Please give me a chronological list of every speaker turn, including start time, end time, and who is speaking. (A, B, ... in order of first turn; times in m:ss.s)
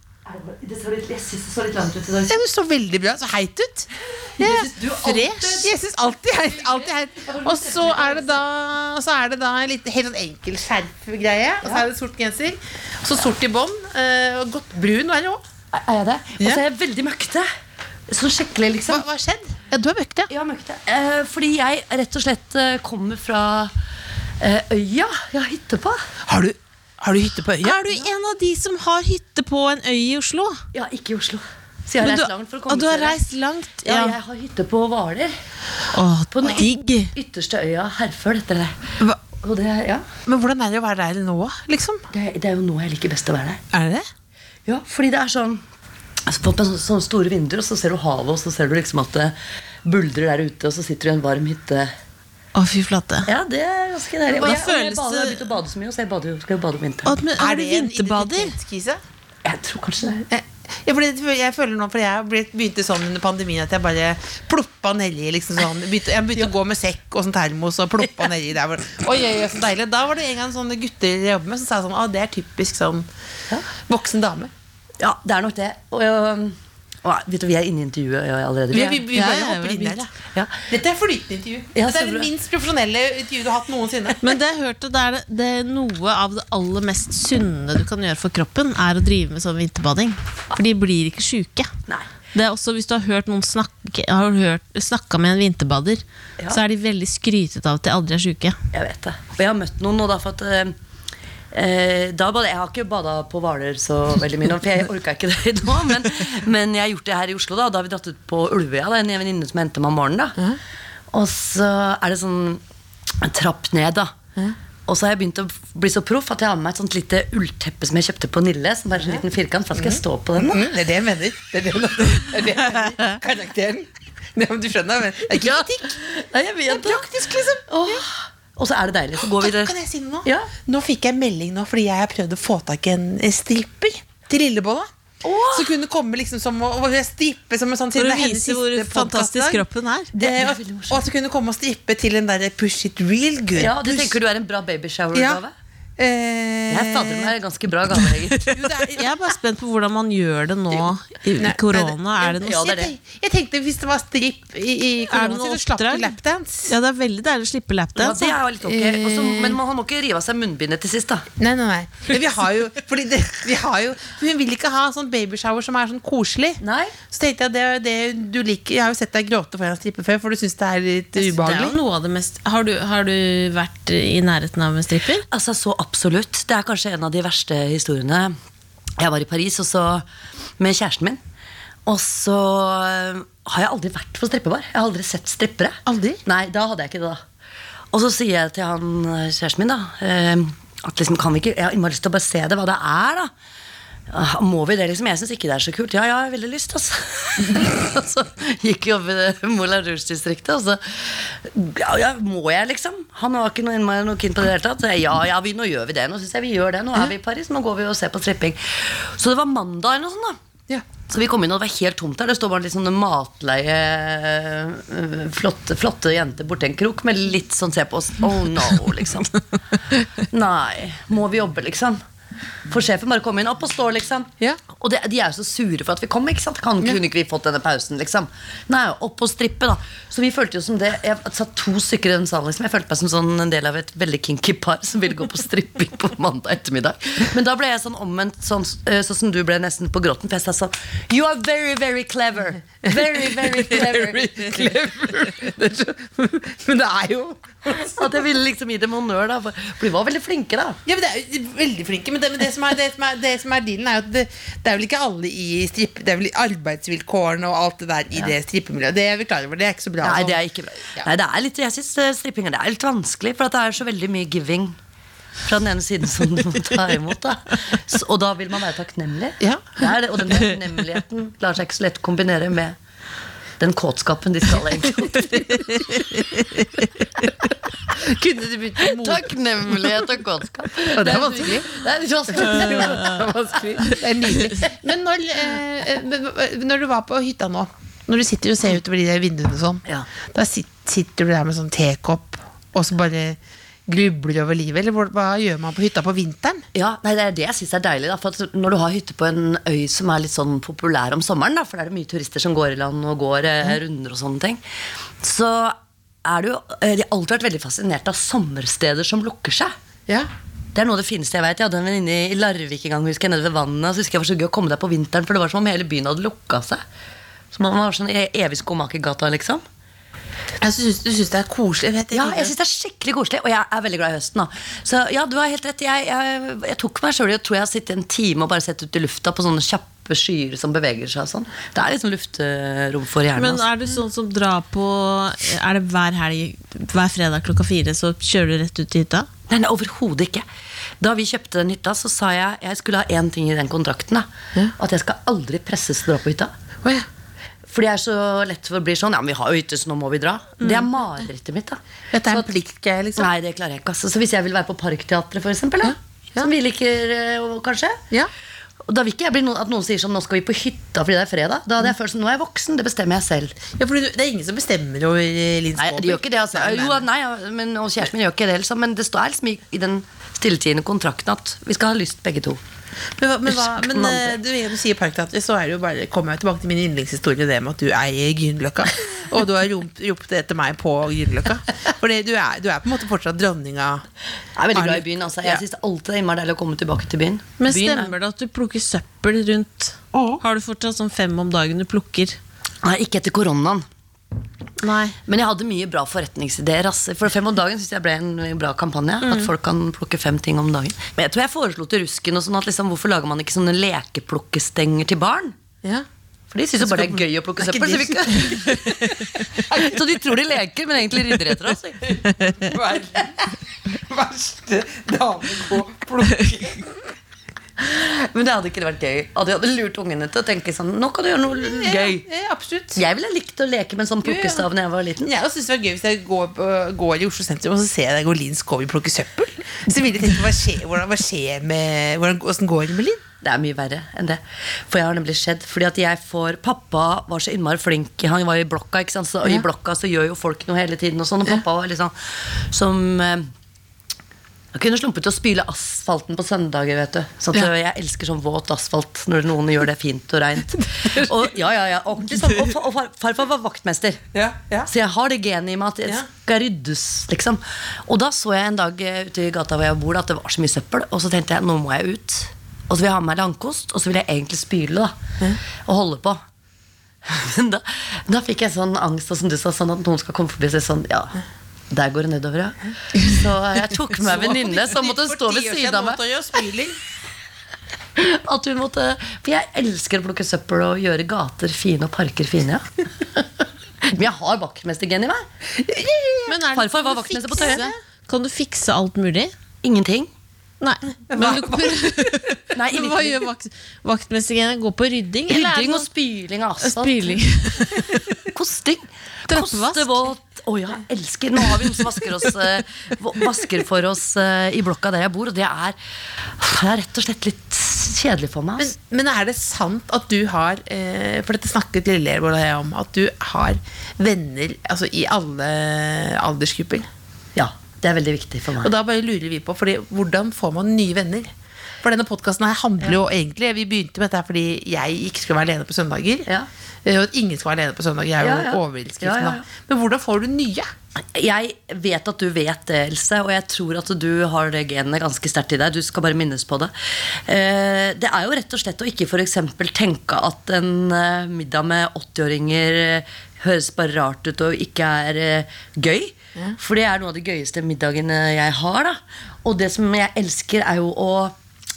0:00.2-0:02.4 A
0:02.3-0:15.4 B
0:04.1-0:05.7 A
0:06.4-0:08.4 A
0:11.6-0:11.9 A
0:15.7-0:17.5 A
0:18.1-0:19.0 A
0:18.9-0:20.3 B
0:20.3-0:23.7 A
0:24.4-0:26.0 A
0:26.2-0:27.8 B
0:27.6-0:30.6 C
0:30.7-0:33.2 A
0:32.0-0:34.2 C
0:33.8-0:35.3 A
0:35.9-0:37.1 C
0:36.3-0:40.0 A
0:40.2-0:42.0 B
0:42.1-0:43.6 A
0:43.7-0:44.0 B
0:44.6-0:45.6 A
0:46.3-0:51.9 A
0:52.5-0:53.3 C
0:53.2-0:57.2 A
0:54.3-0:55.4 C
0:57.0-0:58.5 C
0:57.4-0:59.0 B
0:59.4-1:00.2 A
1:00.3-1:13.0 B
1:13.9-1:14.5 B
1:15.0-1:19.1 A
1:18.7-1:20.1 B
1:19.1-1:20.0 C
1:20.3-1:20.7 A
1:20.7-1:24.3 B
1:21.7-1:22.3 A
1:24.2-1:31.7 C
1:32.3-1:38.6 C
1:38.7-1:40.7 A
1:41.5-1:50.4 A
1:51.1-1:52.6 A
1:53.2-1:54.2 A
1:54.9-2:00.7 A
1:59.7-2:06.0 B
2:05.3-2:07.1 A
2:06.7-2:08.0 B
2:07.6-2:10.5 A
2:09.4-2:14.9 B
2:15.2-2:15.8 A
2:15.5-2:19.6 B
2:18.0-2:20.1 C
2:20.1-2:21.0 A
2:20.2-2:24.2 B
2:23.5-2:25.5 A
2:25.1-2:25.4 B
2:26.0-2:27.3 B
2:26.7-2:28.4 A
2:28.4-2:29.3 B
2:28.8-2:32.7 C
2:31.4-2:36.7 B
2:32.2-2:32.9 A
2:35.1-2:36.2 C
2:36.7-2:38.3 C
2:37.9-2:41.3 A
2:38.6-2:39.6 B
2:41.4-2:46.6 B
2:46.6-2:46.9 A
2:47.1-2:51.8 B
2:51.2-2:55.2 C
2:55.3-2:58.3 A
2:59.0-3:00.0 A
3:00.6-3:01.2 A
3:01.8-3:07.2 A
3:05.8-3:06.2 B
3:07.9-3:13.3 A
3:14.1-3:30.4 A
3:31.0-3:39.4 A
3:40.2-3:42.0 A
3:42.7-4:04.8 A
4:02.8-4:08.1 B
4:07.8-4:10.8 A
4:10.8-4:20.4 B
4:20.0-4:24.8 A
4:25.4-4:32.8 A
4:29.4-4:29.8 B
4:33.6-4:35.6 A
4:35.3-4:37.2 B
4:37.9-4:40.0 B
4:38.8-4:44.0 A
4:40.8-4:41.8 B
4:42.3-4:53.4 B
4:53.9-4:56.6 B
4:56.7-5:04.6 A
5:05.2-5:09.7 A
5:10.7-5:16.8 A
5:17.5-5:19.6 A
5:20.6-5:22.5 B
5:22.1-5:33.6 A
5:33.3-5:39.3 C
5:39.5-5:40.4 A
5:41.0-5:46.5 A
5:47.7-5:52.5 A
5:52.1-5:53.3 B
5:53.2-5:58.0 A
5:55.8-5:56.5 B
5:58.9-6:03.6 A
6:03.8-6:07.0 B
6:05.8-6:12.6 A
6:13.2-6:24.0 B
6:13.5-6:14.4 A
6:24.6-6:28.1 A
6:24.7-6:25.6 B
6:27.6-6:32.4 C
6:32.8-6:33.8 A
6:34.8-6:35.2 C
6:35.3-6:45.6 A
6:39.2-6:39.5 C
6:46.5-6:52.3 A
6:46.8-6:50.2 B
6:51.3-6:57.0 B
6:57.8-7:02.2 A
7:01.5-7:03.0 B
7:02.9-7:05.3 A
7:04.2-7:04.7 B
7:05.2-7:13.2 B
7:13.4-7:23.5 A
7:24.7-7:34.2 A
7:31.0-7:31.4 B
7:34.3-7:34.9 B
7:34.8-7:45.2 A
7:45.8-7:46.4 A
7:47.2-7:56.2 A
7:54.2-7:57.0 B
7:58.2-8:03.4 A
8:04.0-8:05.5 A
8:05.8-8:07.9 B
8:06.5-8:09.5 C
8:06.7-8:07.9 A
8:09.8-8:10.3 A
8:10.8-8:16.1 C
8:11.3-8:12.4 B
8:12.7-8:13.4 A
8:15.5-8:17.4 A
8:16.8-8:18.2 C
8:18.5-8:28.9 A
8:19.5-8:20.2 C
8:28.8-8:37.0 B
8:37.5-8:38.9 A
8:38.8-8:41.5 B
8:42.0-8:46.5 B
8:47.0-8:50.9 B
8:48.4-8:49.6 A
8:51.2-9:11.6 A